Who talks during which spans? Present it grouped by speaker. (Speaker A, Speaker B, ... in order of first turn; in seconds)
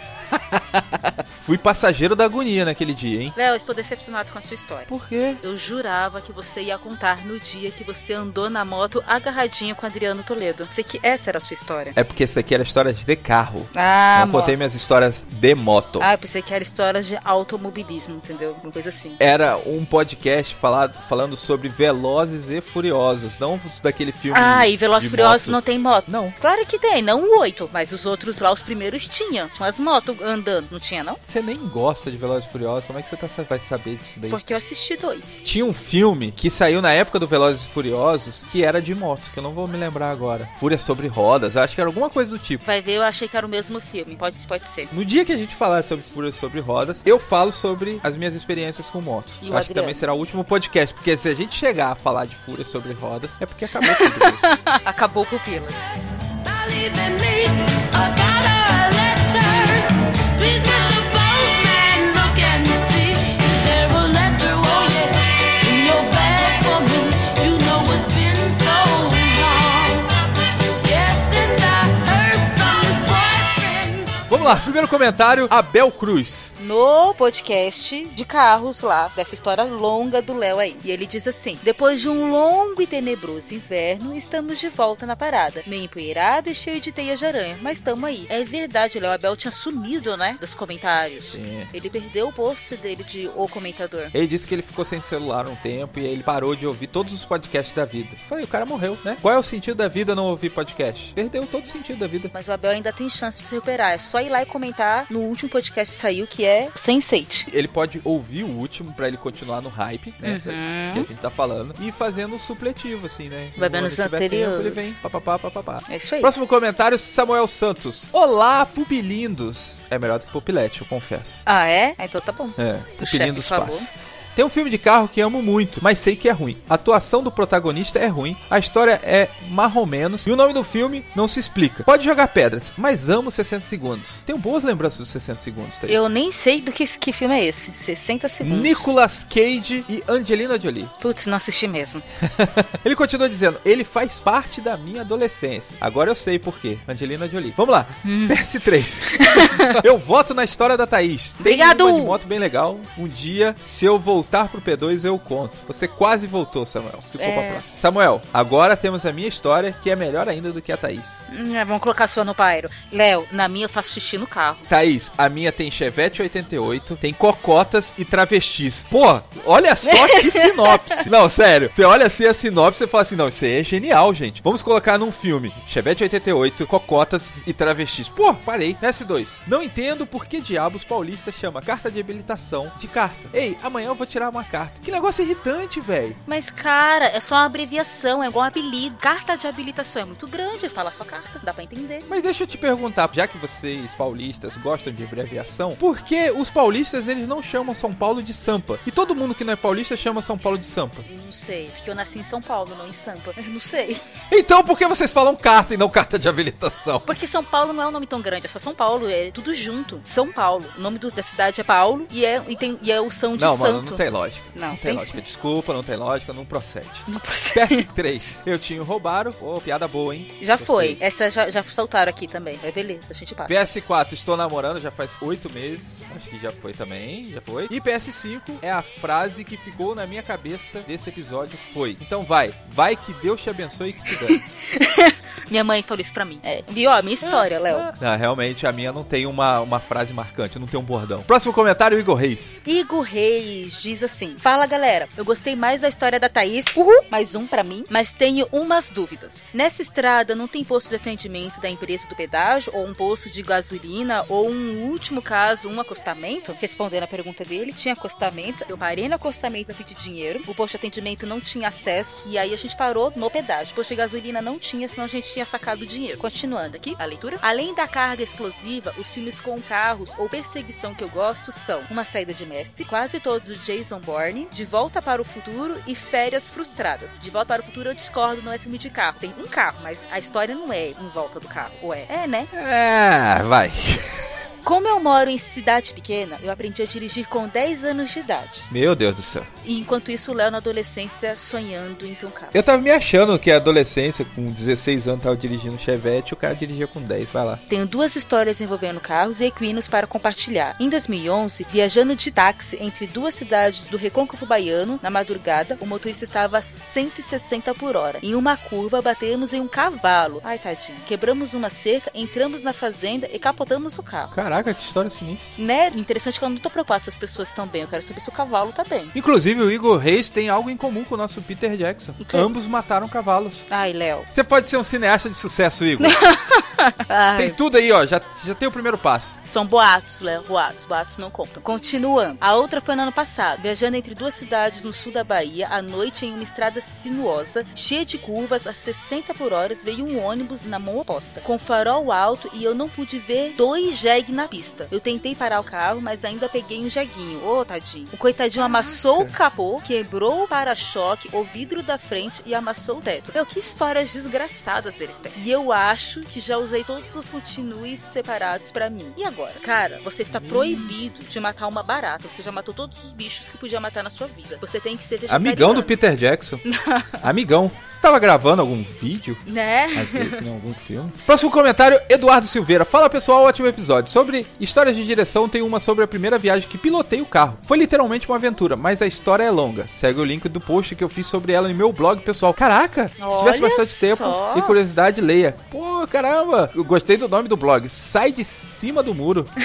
Speaker A: 0.3-3.3, 4.9-5.4, 11.9-16.1, 19.2-26.4, 31.2-34.4, 35.4-42.6, 44.9-54.5, 74.3-76.5, 91.3-91.7, 94.1-102.3, 107.5-121.4, 122.6-136.1, 138.4-140.9, 142.2-161.2, 164.7-186.2, 192.1-201.1, 204.3-207.1, 213.3-221.0, 223.5-234.4, 237.2-242.6, 282.5-284.3, 288.7-289.5, 292.5-297.6, 314.3-315.6, 319.1-323.7, 324.3-326.2, 327.4-329.4, 348.6-349.3, 360.3-361.0, 365.3-366.6, 367.2-389.5
Speaker B: 3.4-4.9, 5.4-11.9, 13.7-14.6, 16.0-19.2, 24.3-31.2, 34.3-35.5, 42.6-44.9, 49.4-50.0, 53.8-55.9, 76.6-94.1, 102.3-107.5, 110.2-111.1, 113.6-115.0, 115.9-116.3, 121.5-123.9, 135.9-138.9, 141.0-142.0, 148.0-148.4, 149.1-149.8, 151.4-152.2, 157.2-157.7, 161.3-164.7, 169.9-171.0, 186.3-192.1, 201.1-204.0, 207.1-214.0, 214.5-215.2, 217.1-217.9, 220.4-223.6, 234.3-237.9, 242.7-282.5, 284.6-288.7, 289.6-292.6, 297.7-314.3, 315.6-319.1, 322.2-322.5, 323.7-324.3, 326.0-327.6, 329.4-366.0, 366.7-367.2, 369.5-370.4, 383.2-384.8
Speaker C: 56.4-70.1, 70.8-74.3